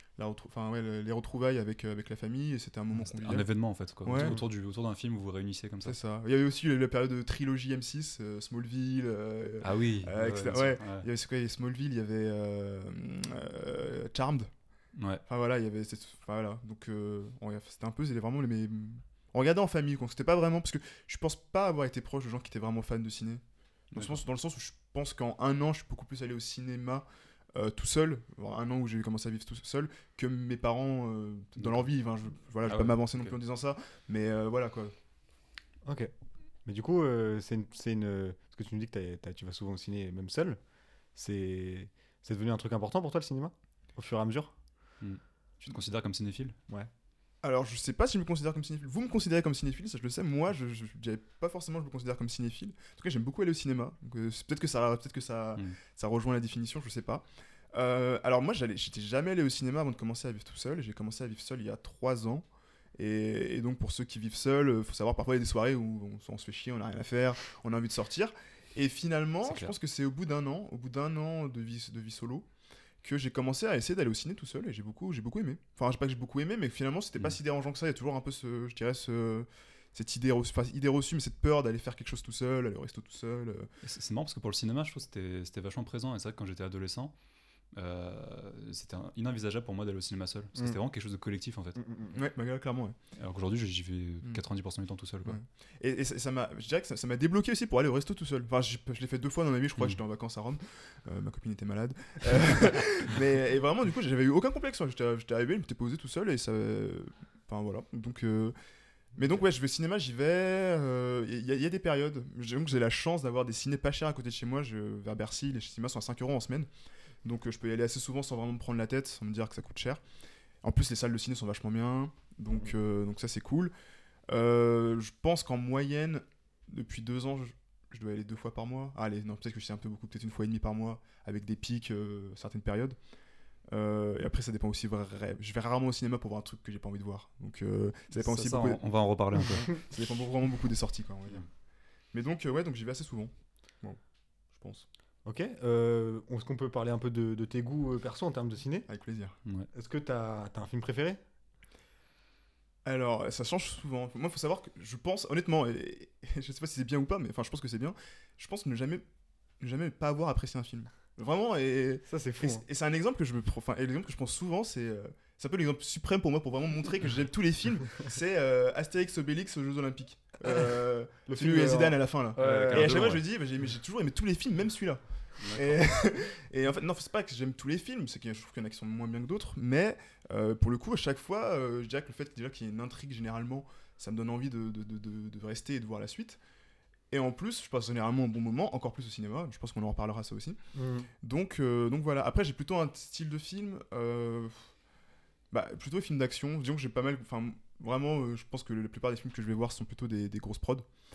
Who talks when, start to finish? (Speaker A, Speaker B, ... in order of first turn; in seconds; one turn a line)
Speaker A: 0.2-3.5
Speaker B: 2.9-6.0
Speaker A: 4.0-4.4
Speaker C: 4.2-4.5
Speaker A: 5.8-14.5
Speaker B: 9.6-11.1
Speaker B: 14.9-15.2
Speaker A: 15.3-23.4
Speaker B: 23.9-24.2
Speaker A: 23.9-34.9
Speaker B: 31.6-31.9
Speaker B: 32.7-33.4
Speaker C: 35.9-36.1
Speaker C: 36.6-44.6
Speaker B: 45.0-46.6
Speaker A: 47.4-62.5
Speaker A: 63.0-72.5
Speaker B: 69.4-69.7
Speaker A: 73.0-83.7
Speaker B: 83.8-87.1
Speaker B: 87.7-91.8
Speaker C: 91.8-92.2
Speaker A: 92.1-93.0
Speaker B: 93.2-95.4
Speaker A: 95.2-108.5
Speaker A: 109.2-116.7
Speaker A: 117.2-120.0
Speaker A: 120.6-123.7
Speaker A: 124.3-133.0
Speaker A: 133.7-141.5
Speaker B: 138.1-139.7
Speaker A: 142.1-144.0
Speaker A: 144.5-144.9
Speaker C: 145.2-148.9
Speaker A: 148.9-149.4
Speaker C: 149.7-151.2
Speaker A: 152.8-159.0
Speaker A: 159.6-186.4
Speaker C: 162.1-162.6
Speaker C: 170.5-173.2
Speaker B: 172.4-173.2
Speaker B: 175.4-175.8
Speaker A: 187.1-190.6
Speaker C: 190.8-191.1
Speaker A: 191.2-194.7
Speaker A: 195.5-200.9